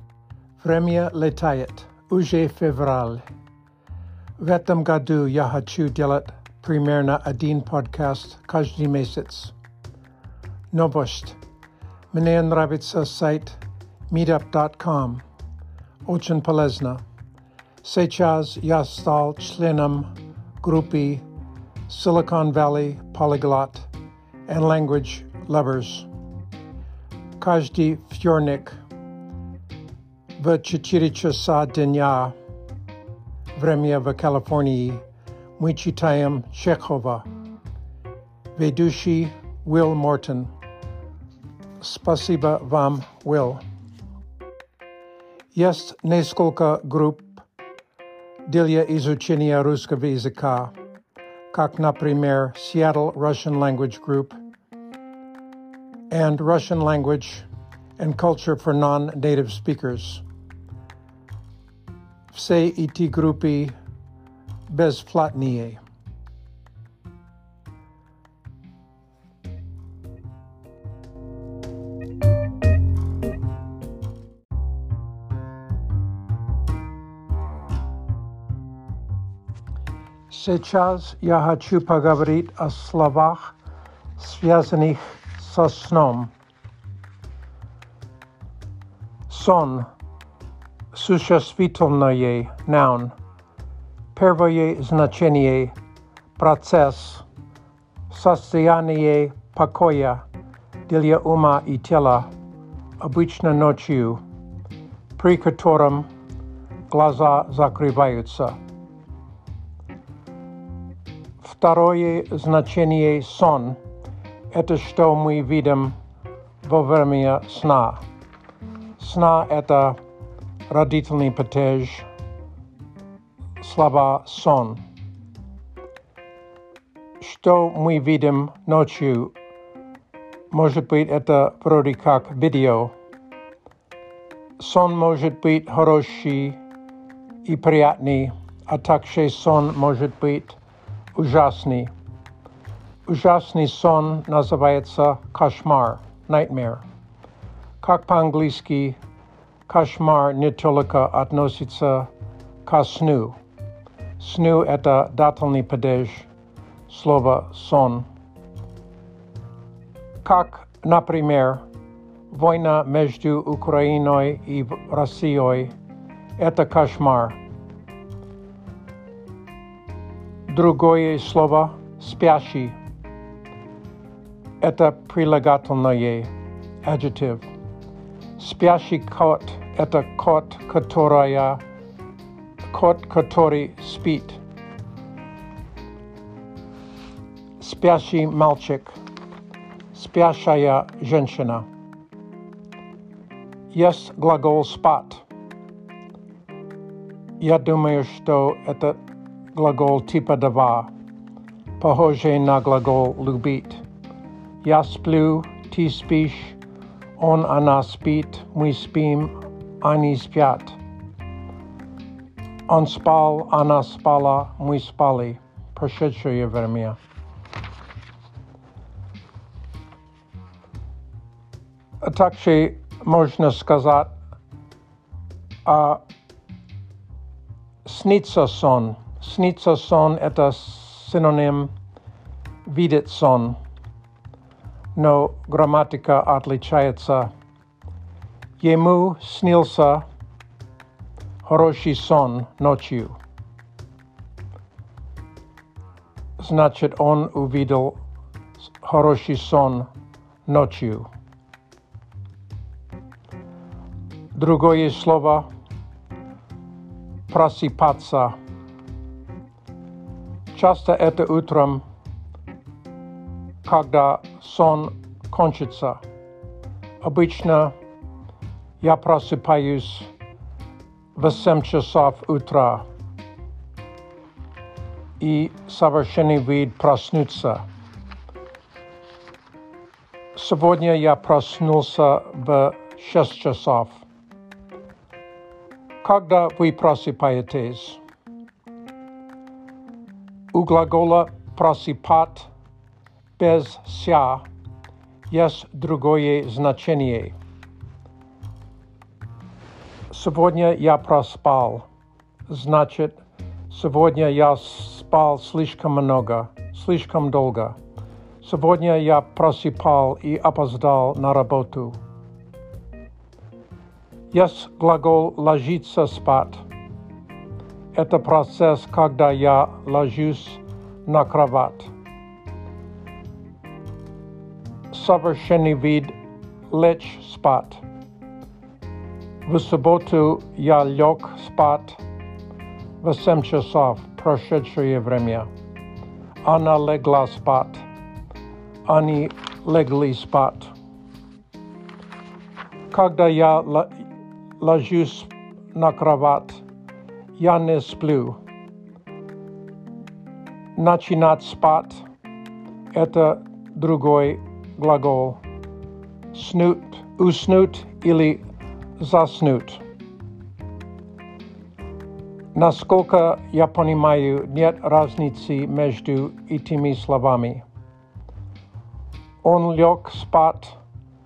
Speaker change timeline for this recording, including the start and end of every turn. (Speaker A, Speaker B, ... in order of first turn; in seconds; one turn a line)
Speaker A: 0.6-3.2
Speaker A: 4.4-9.5
Speaker A: 10.7-11.4
Speaker A: 12.1-15.2
Speaker A: 16.1-17.0
Speaker A: 17.8-20.1
Speaker A: 20.6-21.2
Speaker A: 21.9-23.9
Speaker A: 24.5-26.1
Speaker A: 27.4-28.7
Speaker A: 30.4-32.3
Speaker A: 33.5-35.0
Speaker A: 35.6-37.2
Speaker A: 38.5-40.5
Speaker A: 41.8-43.6
Speaker A: 45.5-47.4
Speaker A: 48.5-50.7
Speaker A: 51.5-54.4
Speaker A: 56.1-57.5
Speaker A: 58.0-60.2
Speaker A: 62.3-63.8
Speaker A: 64.7-65.8
Speaker A: 80.3-83.5
Speaker A: 84.2-86.3
Speaker A: 89.3-89.9
Speaker A: 90.9-93.1
Speaker A: 94.1-95.8
Speaker A: 96.4-97.2
Speaker A: 98.1-100.2
Speaker A: 100.9-102.3
Speaker A: 103.0-104.2
Speaker A: 105.2-106.1
Speaker A: 106.9-108.6
Speaker A: 111.4-113.8
Speaker A: 114.5-116.0
Speaker A: 116.6-118.0
Speaker A: 119.0-120.0
Speaker A: 120.7-122.1
Speaker A: 123.6-124.8
Speaker A: 127.2-129.3
Speaker A: 130.5-132.9
Speaker A: 134.6-136.6
Speaker A: 137.4-140.6
Speaker A: 141.1-141.9
Speaker A: 143.1-146.8
Speaker A: 147.8-149.0
Speaker A: 149.7-152.1
Speaker A: 152.6-153.4
Speaker A: 154.2-156.3
Speaker A: 156.9-158.1
Speaker A: 160.2-161.6
Speaker A: 162.3-165.7
Speaker A: 166.4-167.4
Speaker A: 170.5-172.8
Speaker A: 174.6-176.3
Speaker A: 176.8-177.5
Speaker A: 178.4-181.6
Speaker A: 182.7-184.4
Speaker A: 187.6-188.9
Speaker A: 189.9-191.7
Speaker A: 193.7-195.2
Speaker A: 197.4-199.0
Speaker A: 199.5-200.9
Speaker A: 201.8-203.8
Speaker A: 204.6-206.6
Speaker A: 207.2-210.8
Speaker A: 212.7-217.0
Speaker A: 222.0-224.1
Speaker A: 225.6-226.0
Speaker A: 227.8-231.7
Speaker A: 232.7-233.6
Speaker A: 234.9-237.3
Speaker A: 238.6-240.0
Speaker A: 241.4-243.2
Speaker A: 246.4-248.0
Speaker A: 248.6-249.9
Speaker A: 250.4-251.1
Speaker A: 254.3-255.5
Speaker A: 257.3-258.4
Speaker A: 260.5-261.8
Speaker A: 263.6-266.0
Speaker A: 267.0-267.8
Speaker A: 268.8-270.1
Speaker A: 271.1-272.9
Speaker A: 275.2-277.6
Speaker A: 280.3-284.0
Speaker A: 286.0-288.0
Speaker A: 290.5-292.5
Speaker A: 293.4-294.4
Speaker A: 295.3-297.4
Speaker A: 300.1-301.9
Speaker A: 302.5-303.2
Speaker A: 303.7-307.8
Speaker A: 308.4-312.0
Speaker A: 314.3-316.6
Speaker A: 317.9-321.9
Speaker A: 324.9-326.1
Speaker A: 326.7-327.8
Speaker A: 329.4-332.0
Speaker A: 333.0-335.5
Speaker A: 336.4-337.9
Speaker A: 338.9-340.7
Speaker A: 342.9-343.9
Speaker A: 344.6-346.6
Speaker A: 347.4-348.4
Speaker A: 350.8-352.0
Speaker A: 352.9-355.4
Speaker A: 356.3-358.4
Speaker A: 359.0-359.8
Speaker A: 362.5-367.6
Speaker A: 369.4-370.8